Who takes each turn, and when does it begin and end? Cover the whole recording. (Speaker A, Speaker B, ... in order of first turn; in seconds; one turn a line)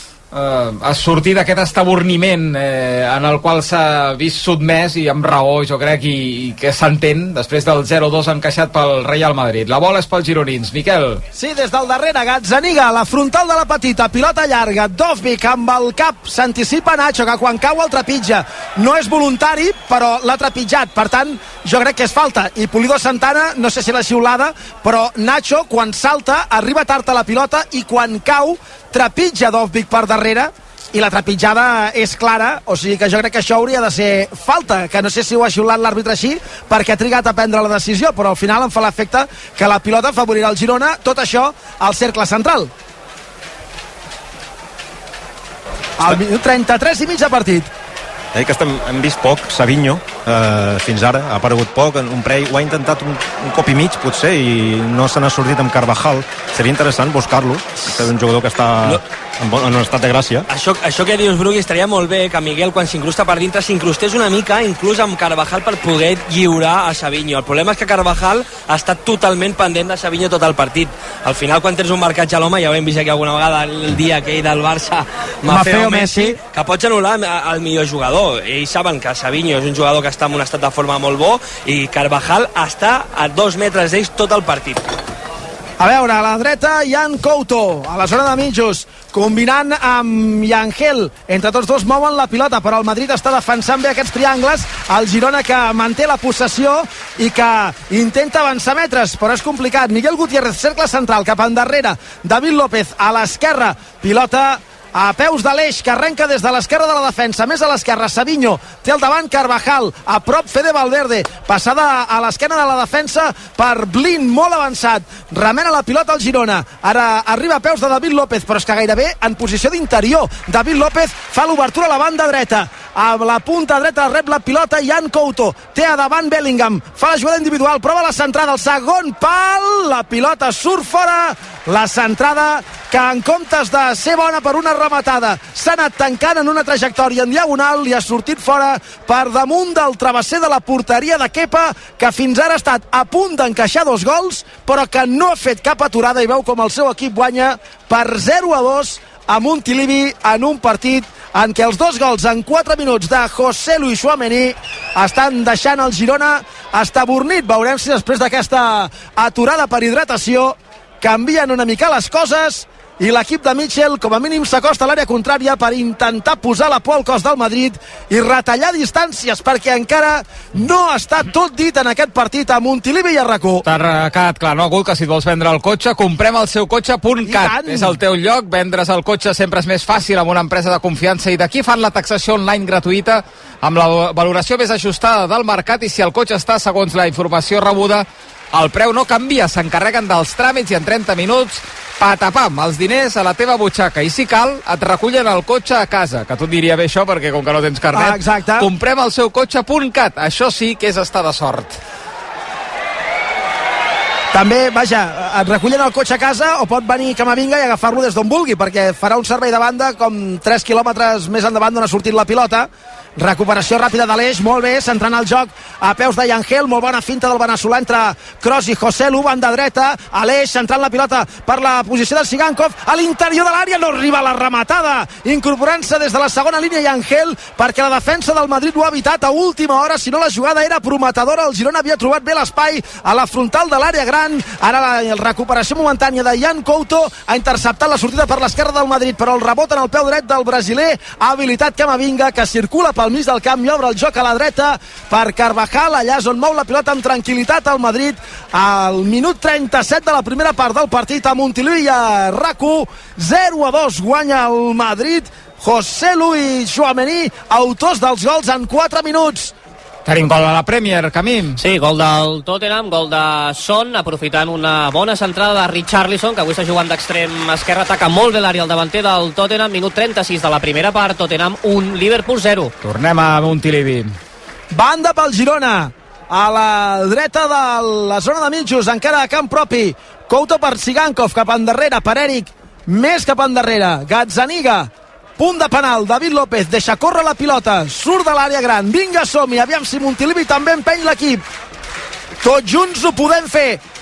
Speaker A: 0.3-11.2
Speaker B: 11.3-42.7
Speaker B: 46.0-47.7
Speaker C: 48.3-60.5
Speaker D: 60.5-84.9
Speaker B: 75.5-76.4
Speaker B: 85.8-173.6
Speaker A: 173.6-201.8
Speaker B: 177.2-177.9
Speaker B: 197.9-198.7
Speaker B: 204.3-259.5
Speaker A: 260.1-261.6
Speaker E: 261.6-272.7
Speaker A: 272.8-274.1
Speaker B: 274.7-291.4
Speaker B: 292.4-293.8